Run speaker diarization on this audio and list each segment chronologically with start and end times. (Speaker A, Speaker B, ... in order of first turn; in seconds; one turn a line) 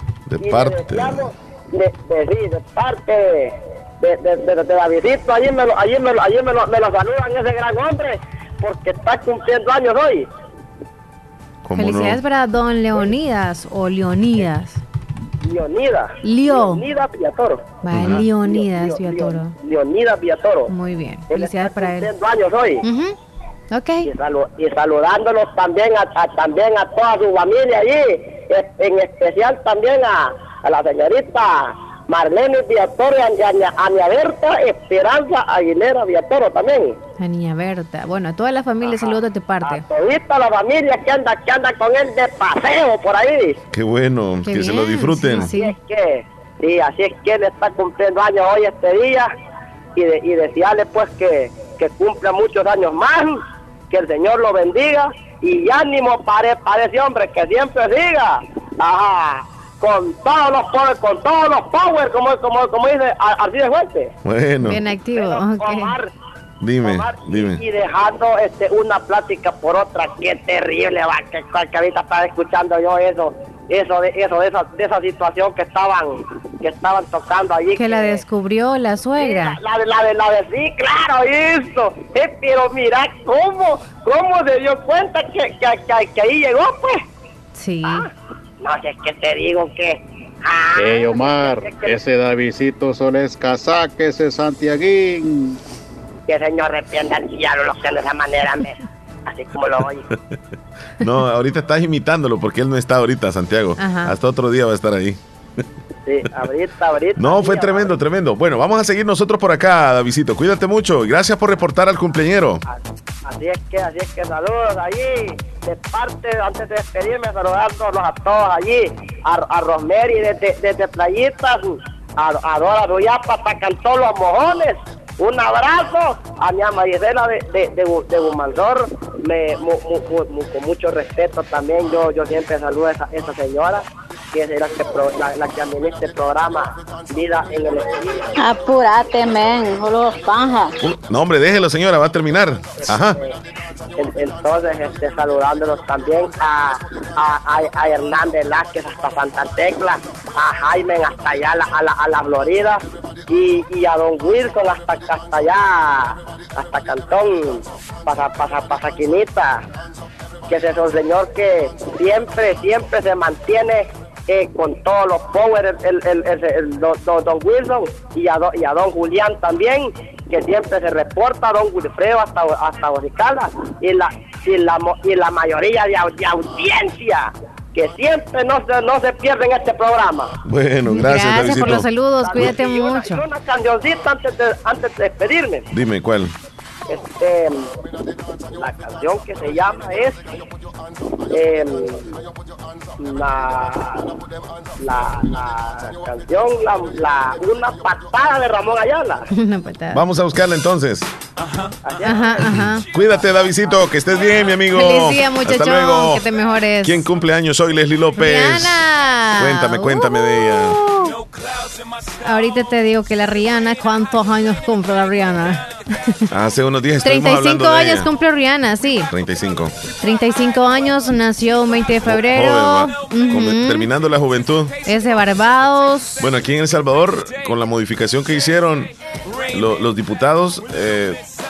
Speaker A: 0.3-1.3
Speaker B: 0.4-10.3
Speaker A: 11.6-12.2
Speaker C: 11.7-14.8
Speaker B: 15.4-17.6
Speaker C: 16.2-16.8
Speaker C: 17.8-19.5
Speaker A: 17.9-18.2
Speaker B: 18.2-20.7
Speaker C: 20.7-22.1
Speaker B: 21.3-22.8
Speaker C: 22.8-23.1
Speaker C: 23.7-24.1
Speaker B: 24.0-37.0
Speaker C: 37.2-39.8
Speaker B: 38.8-43.6
Speaker A: 43.7-45.5
Speaker C: 44.5-45.7
Speaker B: 45.5-49.3
Speaker B: 49.9-64.1
Speaker A: 64.2-64.8
Speaker C: 64.6-65.9
Speaker B: 65.2-66.1
Speaker A: 66.6-67.6
Speaker B: 66.8-78.2
Speaker C: 77.7-79.6
Speaker B: 79.2-87.0
Speaker C: 87.5-88.0
Speaker B: 88.6-92.0
Speaker D: 90.8-95.6
Speaker B: 96.3-100.0
Speaker A: 101.0-105.2
Speaker C: 103.8-104.1
Speaker B: 106.0-107.9
Speaker A: 107.2-112.6
Speaker B: 113.2-138.3
Speaker A: 140.8-143.2
Speaker B: 142.8-143.4
Speaker B: 143.9-159.6
Speaker B: 160.5-180.3
Speaker A: 180.4-182.5
Speaker C: 180.8-183.2
Speaker B: 182.2-185.7
Speaker A: 185.7-186.3
Speaker B: 186.9-187.6
Speaker B: 188.6-190.2
Speaker B: 191.3-192.1
Speaker B: 193.0-194.2
Speaker B: 194.8-199.2
Speaker C: 199.3-200.0
Speaker A: 199.9-201.1
Speaker B: 201.8-202.4
Speaker C: 202.0-202.8
Speaker A: 202.7-206.2
Speaker C: 204.7-207.0
Speaker A: 206.8-208.8
Speaker C: 208.2-211.2
Speaker A: 209.4-210.8
Speaker C: 212.2-216.1
Speaker A: 216.3-218.1
Speaker C: 217.0-219.1
Speaker A: 219.1-219.7
Speaker C: 220.0-223.9
Speaker A: 222.0-224.7
Speaker C: 224.8-226.2
Speaker A: 226.2-228.9
Speaker A: 229.5-231.2